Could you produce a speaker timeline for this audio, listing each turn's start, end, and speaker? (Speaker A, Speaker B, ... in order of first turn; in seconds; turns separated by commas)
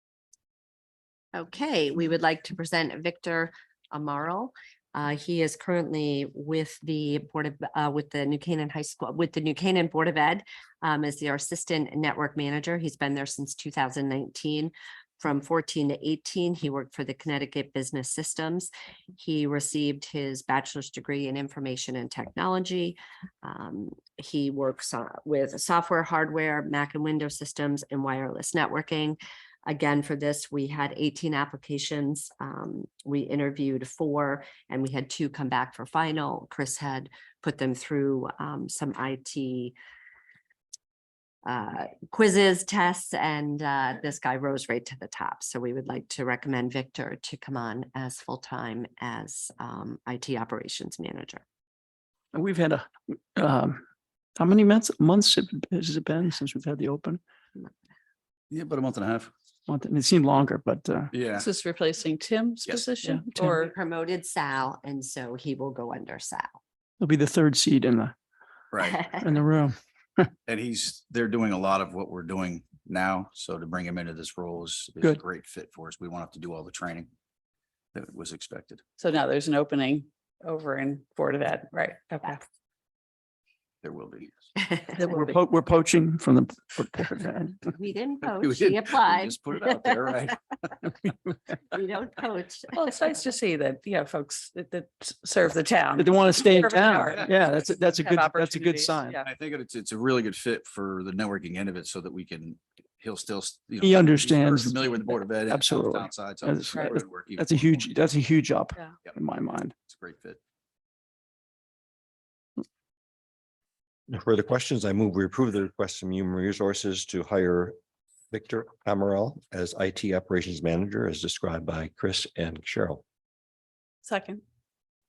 Speaker A: 1.3-39.7, Speaker A: 41.4-51.4, Speaker B: 52.3-53.8, Speaker B: 54.4-57.2, Speaker C: 58.5-59.3, Speaker B: 59.7-61.1, Speaker C: 61.1-61.5, Speaker D: 61.4-63.7, Speaker B: 63.0-63.6, Speaker A: 63.4-66.5, Speaker B: 67.0-68.1, Speaker C: 68.7-69.1, Speaker B: 69.0-70.3, Speaker C: 70.4-77.1, Speaker C: 77.9-78.8, Speaker D: 79.0-82.4, Speaker C: 83.8-84.5, Speaker D: 85.0-85.3, Speaker B: 85.0-87.6, Speaker A: 87.7-89.3, Speaker C: 88.4-90.9, Speaker A: 91.7-92.8, Speaker D: 92.7-97.3, Speaker B: 96.0-99.2, Speaker C: 97.1-97.3, Speaker D: 98.0-99.2, Speaker C: 99.2-108.0, Speaker B: 103.8-109.7, Speaker C: 109.8-110.4, Speaker E: 114.1-117.8, Speaker E: 118.3-123.0, Speaker D: 124.0-124.4